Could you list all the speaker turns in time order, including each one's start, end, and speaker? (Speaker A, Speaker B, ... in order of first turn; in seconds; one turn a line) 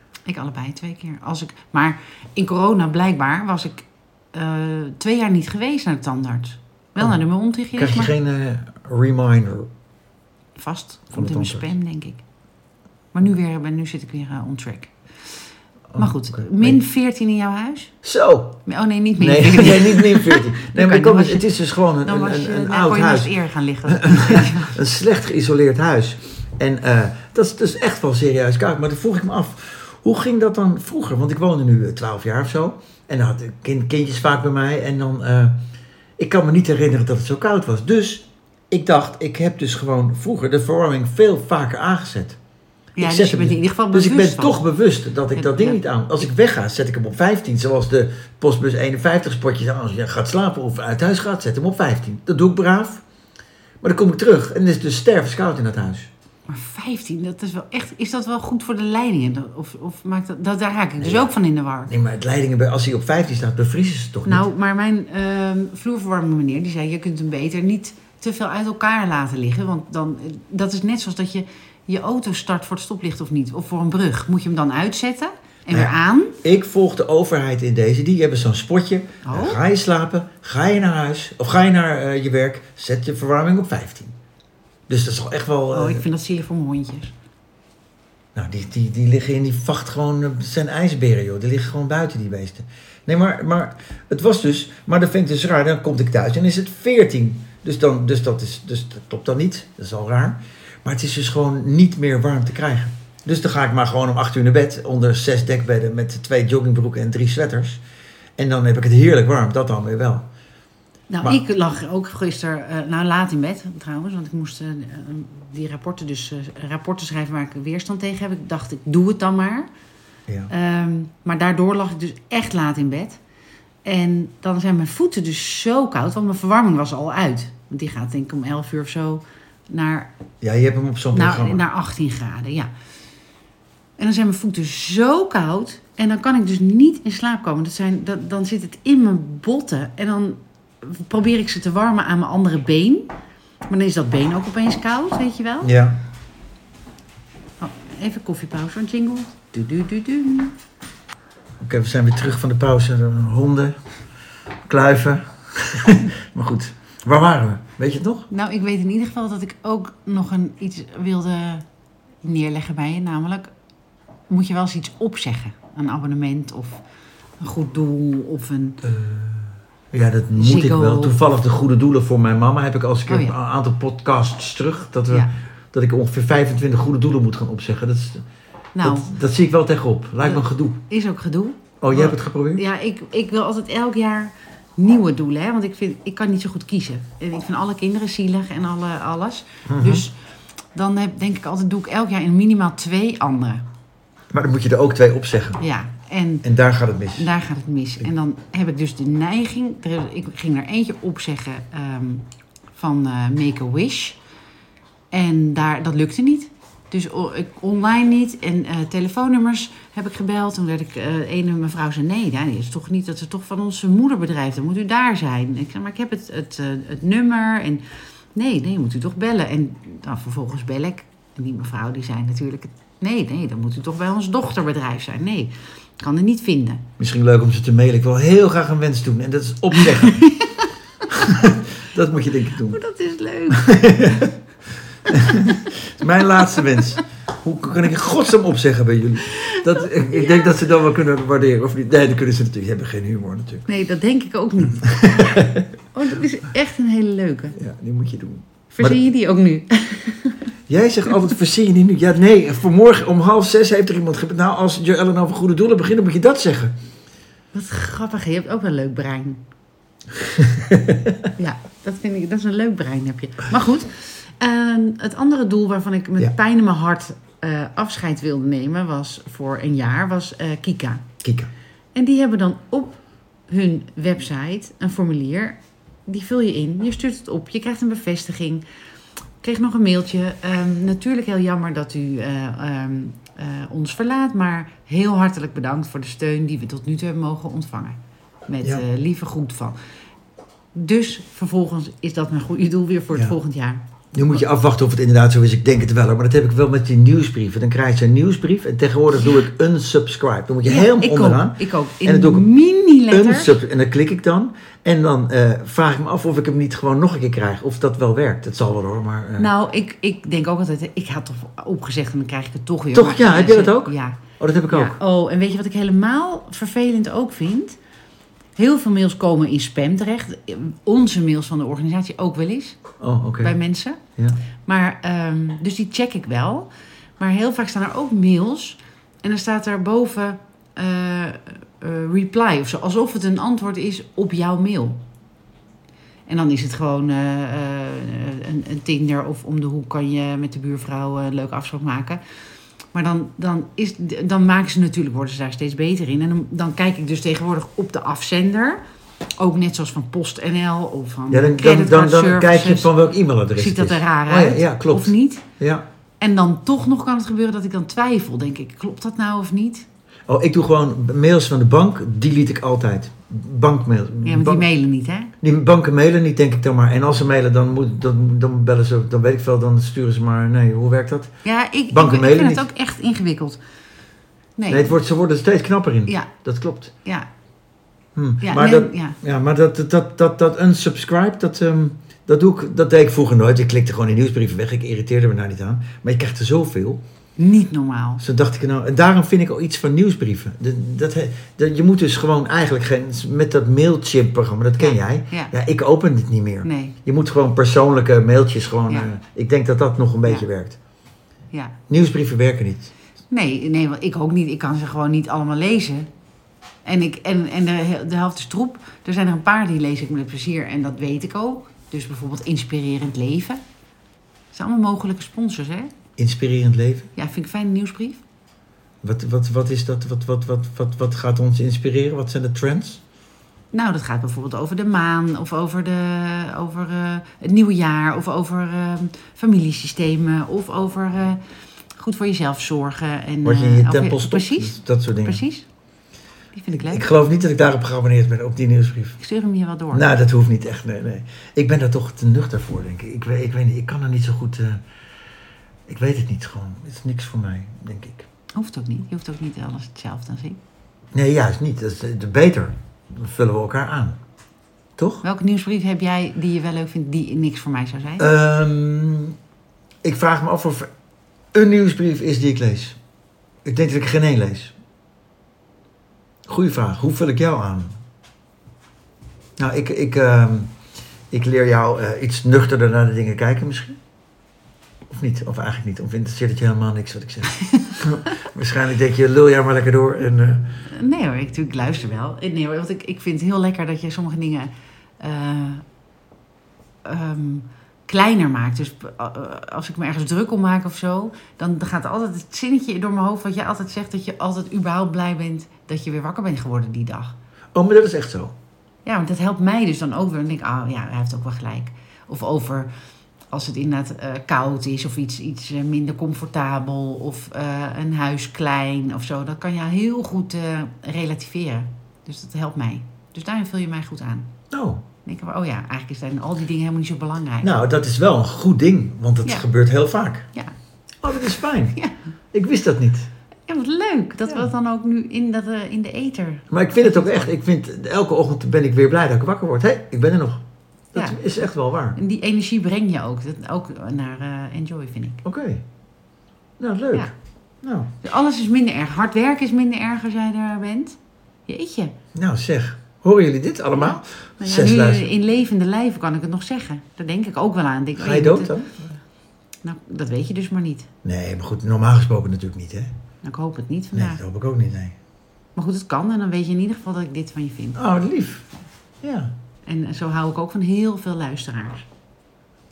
Speaker A: 0.3-8.1
Speaker B: 7.7-9.7
Speaker A: 10.6-12.2
Speaker B: 11.1-11.7
Speaker A: 13.1-14.9
Speaker B: 15.9-16.8
Speaker A: 15.9-17.9
Speaker B: 18.0-18.6
Speaker A: 18.6-24.8
Speaker B: 19.2-23.3
Speaker B: 23.9-35.5
Speaker B: 36.2-42.4
Speaker A: 43.0-44.6
Speaker B: 43.0-53.0
Speaker A: 45.3-45.8
Speaker B: 53.8-56.1
Speaker A: 56.5-61.9
Speaker B: 61.0-61.3
Speaker B: 61.9-64.5
Speaker A: 64.2-76.4
Speaker B: 75.7-84.1
Speaker A: 79.2-79.6
Speaker B: 84.9-86.0
Speaker A: 85.7-87.1
Speaker B: 88.3-107.8
Speaker B: 108.4-110.3
Speaker A: 111.1-119.7
Speaker A: 120.5-123.2
Speaker A: 123.8-130.1
Speaker B: 130.4-131.6
Speaker A: 131.1-132.7
Speaker A: 134.0-143.1
Speaker A: 143.7-145.7
Speaker B: 145.6-146.0
Speaker A: 147.6-150.6
Speaker B: 151.6-153.8
Speaker B: 154.7-158.3
Speaker A: 158.3-161.6
Speaker A: 162.2-163.5
Speaker A: 164.3-166.8
Speaker A: 167.4-168.8
Speaker B: 168.8-178.2
Speaker A: 170.3-171.2
Speaker A: 173.1-173.3
Speaker A: 178.7-179.1
Speaker B: 178.8-180.8
Speaker A: 180.2-190.2
Speaker B: 181.8-182.6
Speaker B: 189.7-190.0
Speaker A: 190.7-193.6
Speaker B: 194.3-195.6
Speaker A: 195.6-196.5
Speaker B: 196.4-197.3
Speaker A: 197.2-204.2
Speaker A: 205.1-217.8
Speaker A: 218.3-226.8
Speaker B: 227.0-230.2
Speaker A: 229.8-230.7
Speaker B: 231.1-232.8
Speaker A: 232.6-234.2
Speaker B: 233.5-234.3
Speaker A: 235.1-235.7
Speaker B: 235.1-243.6
Speaker A: 236.4-236.6
Speaker A: 239.3-240.4
Speaker A: 243.7-247.6
Speaker B: 244.7-245.7
Speaker B: 247.5-249.0
Speaker A: 248.7-250.4
Speaker B: 250.7-256.7
Speaker A: 257.5-259.4
Speaker B: 260.2-261.3
Speaker A: 261.4-271.1
Speaker B: 271.2-271.5
Speaker A: 271.9-278.6
Speaker A: 279.4-289.8
Speaker A: 290.7-293.8
Speaker B: 294.1-302.5
Speaker A: 300.6-303.6
Speaker B: 303.1-309.5
Speaker A: 309.4-317.8
Speaker B: 312.9-315.0
Speaker A: 318.6-322.8
Speaker B: 323.0-323.6
Speaker A: 323.4-324.0
Speaker A: 324.6-335.0
Speaker A: 336.3-342.2
Speaker A: 342.9-348.8
Speaker A: 349.4-352.9
Speaker B: 351.3-355.8
Speaker A: 353.6-355.5
Speaker A: 356.2-359.9
Speaker B: 360.3-364.7
Speaker A: 364.2-365.3
Speaker B: 365.4-371.3
Speaker A: 371.4-373.6
Speaker B: 371.9-372.6
Speaker A: 374.6-374.9
Speaker B: 374.7-376.9
Speaker B: 378.1-387.0
Speaker A: 378.4-379.2
Speaker A: 387.4-388.2
Speaker B: 388.2-400.8
Speaker A: 394.8-395.5
Speaker A: 396.6-396.9
Speaker B: 401.9-402.9
Speaker A: 403.3-406.1
Speaker A: 406.8-413.6
Speaker A: 414.5-415.9
Speaker B: 416.2-417.1
Speaker A: 417.1-418.2
Speaker B: 419.0-423.0
Speaker A: 423.7-431.4
Speaker A: 431.9-435.6
Speaker B: 433.4-435.4
Speaker A: 436.5-437.1
Speaker B: 436.7-439.2
Speaker A: 439.2-440.1
Speaker B: 439.9-444.8
Speaker B: 445.9-448.3
Speaker A: 448.5-450.6
Speaker B: 451.1-454.2
Speaker B: 455.0-455.2
Speaker A: 455.2-458.3
Speaker B: 458.2-459.4
Speaker B: 460.0-460.9
Speaker B: 461.5-463.0
Speaker B: 463.6-464.7
Speaker B: 466.5-467.9
Speaker B: 469.6-470.7
Speaker B: 471.3-474.0
Speaker B: 475.1-480.7
Speaker A: 480.9-485.8
Speaker A: 487.0-497.4
Speaker B: 497.7-498.5
Speaker A: 499.0-502.9
Speaker A: 503.5-514.5
Speaker B: 514.7-515.0
Speaker A: 515.2-517.7
Speaker B: 517.6-520.5
Speaker B: 521.2-522.0
Speaker B: 522.5-523.3
Speaker A: 523.7-527.5
Speaker B: 526.7-530.6
Speaker B: 531.1-532.2
Speaker A: 531.1-531.4
Speaker A: 532.1-535.4
Speaker B: 535.4-535.8
Speaker B: 536.8-537.3
Speaker B: 537.8-538.1
Speaker A: 538.2-542.1
Speaker B: 542.3-545.3
Speaker A: 544.0-548.7
Speaker B: 548.1-549.1
Speaker A: 549.8-551.1
Speaker B: 551.2-553.1
Speaker A: 553.4-554.4
Speaker B: 554.1-555.1
Speaker A: 555.8-558.0
Speaker B: 558.0-558.6
Speaker B: 559.2-559.5
Speaker A: 559.9-562.0